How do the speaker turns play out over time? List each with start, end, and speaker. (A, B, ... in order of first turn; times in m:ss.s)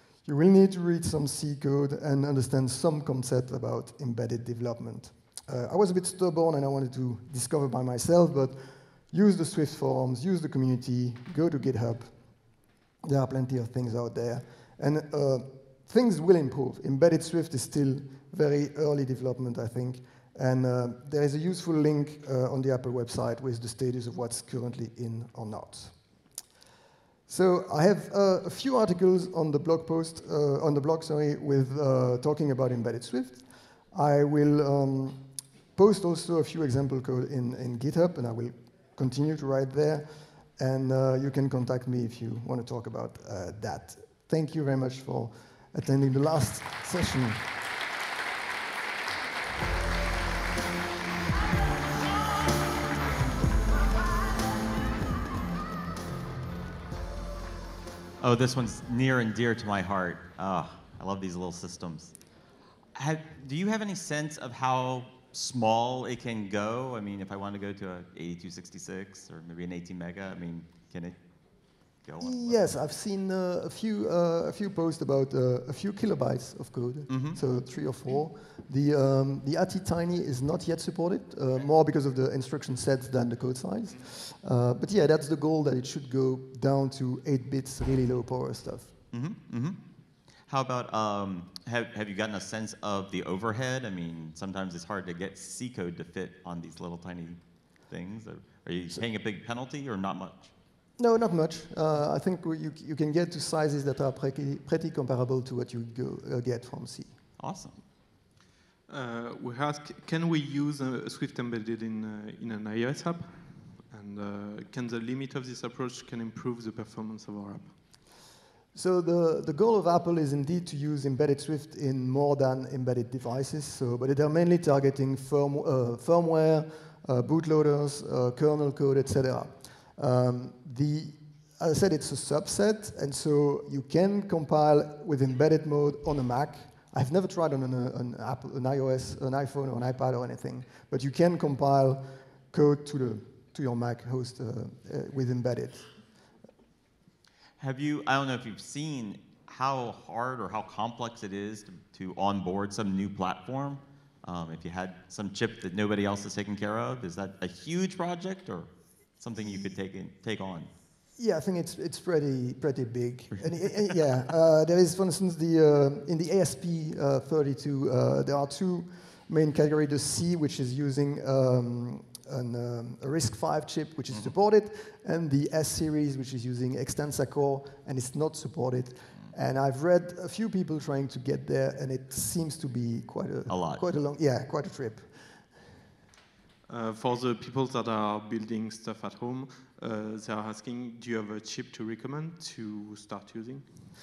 0:00.2-0:08.6 A
0:09.1-0:12.2 A
0:13.0-0:26.0 A
0:27.3-0:35.2 A
0:35.7-0:47.5 A
0:58.2-1:02.2 B
1:03.0-1:11.2 B
1:11.8-1:12.7 B
1:12.2-1:28.9 A
1:17.1-1:17.4 B
1:29.1-1:29.8 B
1:30.5-1:40.5 B
1:41.0-1:47.2 A
1:47.4-1:47.8 B
1:48.9-1:57.8 C
1:58.7-2:25.9 A
2:27.6-2:40.7 B
2:41.2-3:05.2 A
3:03.5-3:03.8 B
3:06.7-3:13.7 C